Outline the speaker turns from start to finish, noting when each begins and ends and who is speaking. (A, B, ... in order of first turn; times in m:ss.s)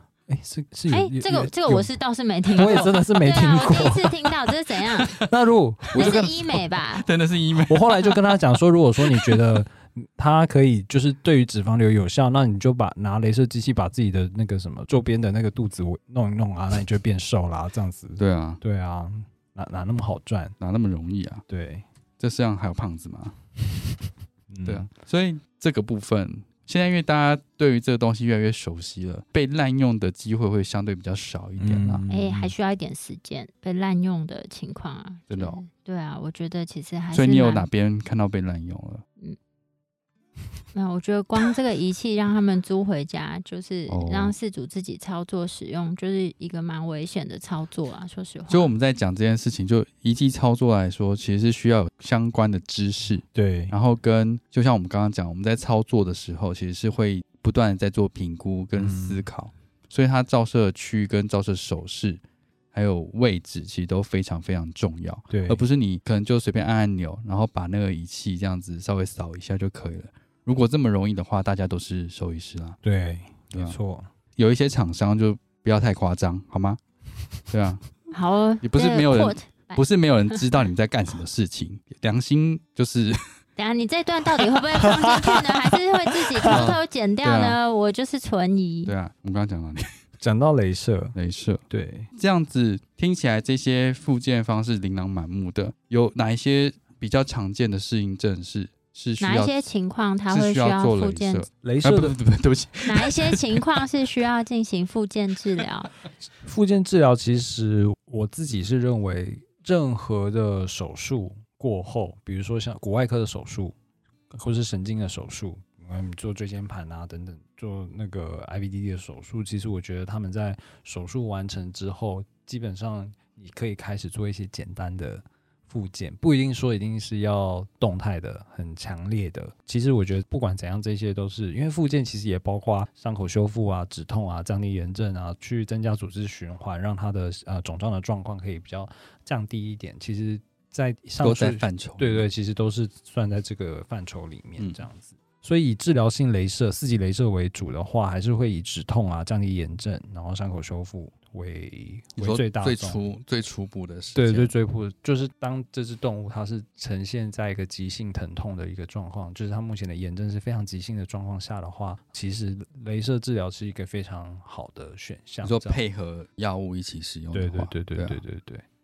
0:00.3-0:01.9 A
0:00.9-0:05.2 B
0:02.6-0:04.3 A
0:05.2-0:06.3 A
0:05.9-0:08.4 C
0:06.0-0:07.1 B
0:07.7-0:20.6 A
0:09.1-0:09.4 C
0:18.2-0:18.6 C
0:20.6-0:21.4 C
0:21.5-0:21.8 A
0:22.2-0:23.4 C
0:24.5-0:24.9 A
0:24.6-0:32.0 C
0:31.6-0:32.5 A
0:32.1-0:37.7 B
0:35.3-0:35.6 C
0:37.1-0:39.0 C
0:40.7-0:48.7 B
0:43.9-0:44.4 C
0:48.5-1:02.2 C
0:53.3-0:53.7 A
0:58.8-0:59.3 A
1:02.7-1:12.8 C
1:05.3-1:05.6 A
1:12.8-1:14.1 A
1:14.4-1:16.8 C
1:17.5-1:17.8 C
1:18.1-1:19.8 B
1:18.6-1:23.4 C
1:23.6-1:28.9 B
1:24.8-1:25.4 A
1:26.1-1:26.7 A
1:26.5-1:27.6 C
1:28.9-1:30.0 C
1:30.2-1:31.2 A
1:31.2-1:31.6 C
1:31.7-1:32.1 A
1:32.2-1:39.6 C
1:39.2-1:41.5 B
1:40.3-1:43.6 C
1:41.6-1:42.2 A
1:42.9-1:45.9 B
1:46.4-1:53.8 A
1:54.3-2:33.0 A
2:21.2-2:22.2 C
2:32.2-2:34.5 C
2:34.2-2:45.8 A
2:45.4-2:48.2 C
2:47.3-2:48.6 A